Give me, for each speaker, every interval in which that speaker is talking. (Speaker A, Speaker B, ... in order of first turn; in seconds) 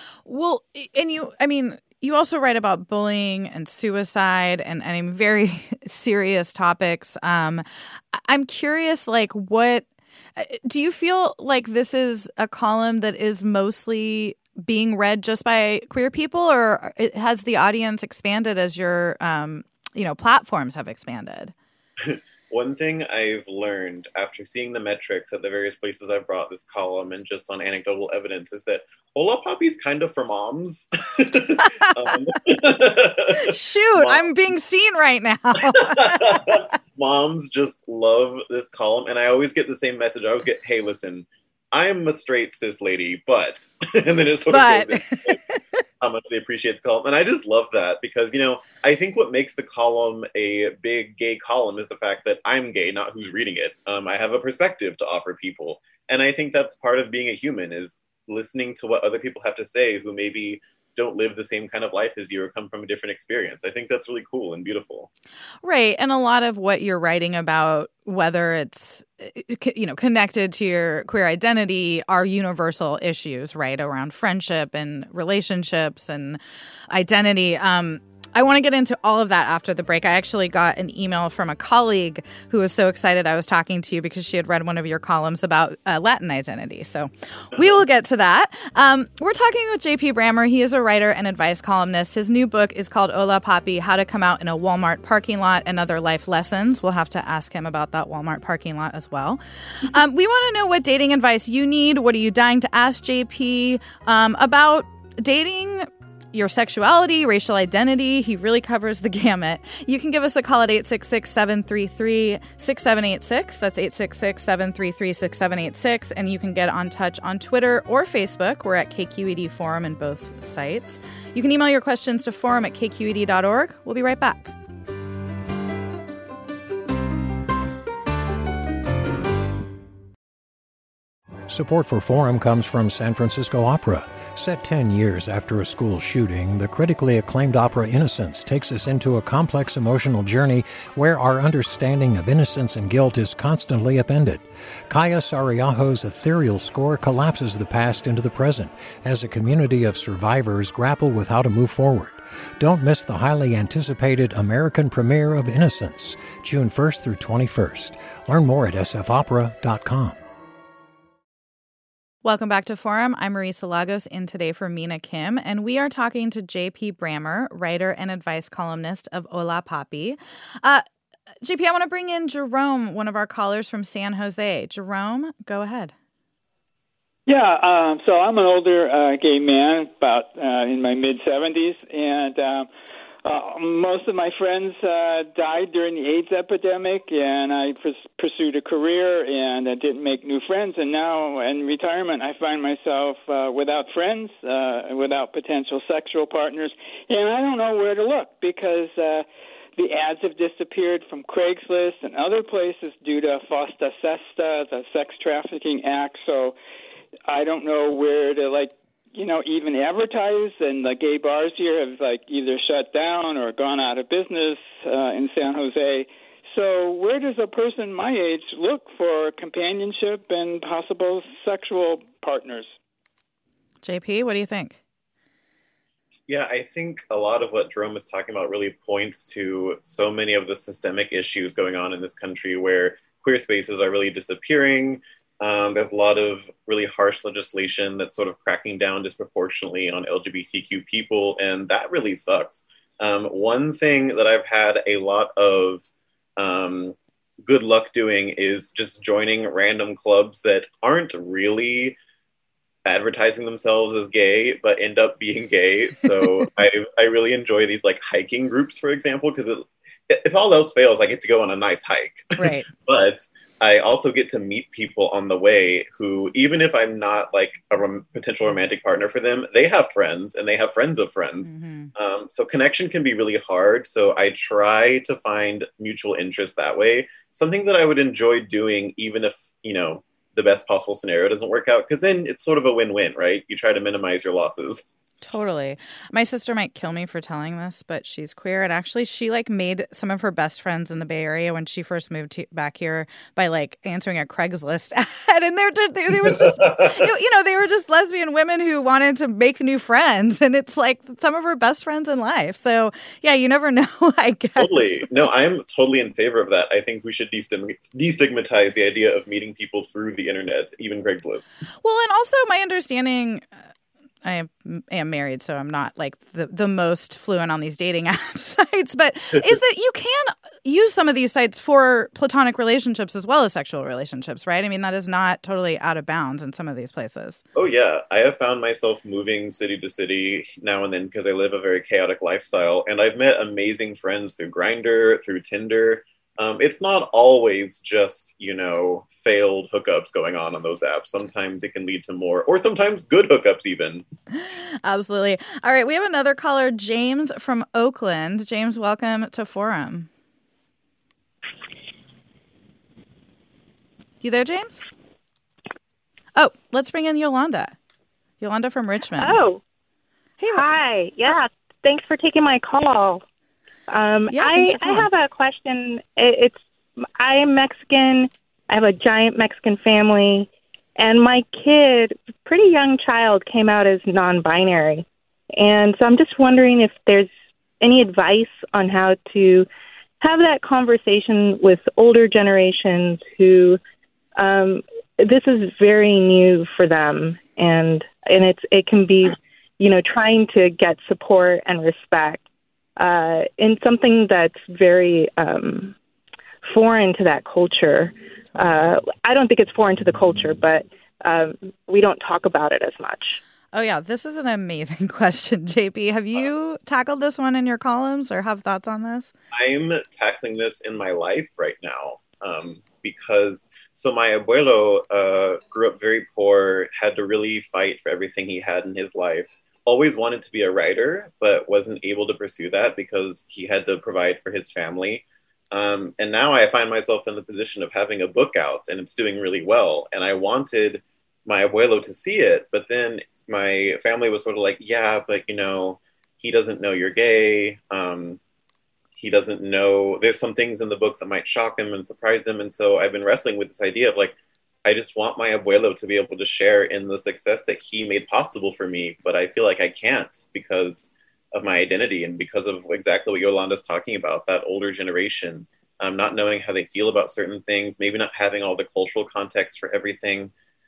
Speaker A: 0.2-9.8, 10.4-21.5, 31.6-31.9, 33.3-36.6, 44.5-45.6, 65.6-124.5, 162.2-170.8, 171.4-175.9, 223.8-224.8, 256.0-256.5, 262.4-262.7, 271.4-271.9, 285.2-305.1, 311.8-313.5, 314.2-327.4, 344.3-350.1, 354.2-354.9, 356.4-357.8, 358.4-359.4, 360.4-360.6, 364.3-365.1, 403.7-409.3
Speaker B: 22.0-34.3, 35.7-45.4, 46.0-65.1, 87.5-87.8, 226.3-252.0, 252.8-284.9, 296.3-297.0, 304.6-311.5, 327.5-344.1, 409.5-438.4, 439.1-460.5
Speaker C: 131.5-160.2
Speaker D: 177.3-182.7, 183.2-206.5, 207.3-222.7
Speaker E: 359.2-359.6, 360.5-363.2, 363.9-366.6, 367.1-375.1, 375.6-379.7, 380.2-383.8, 384.4-392.4, 393.0-395.9, 396.6-403.4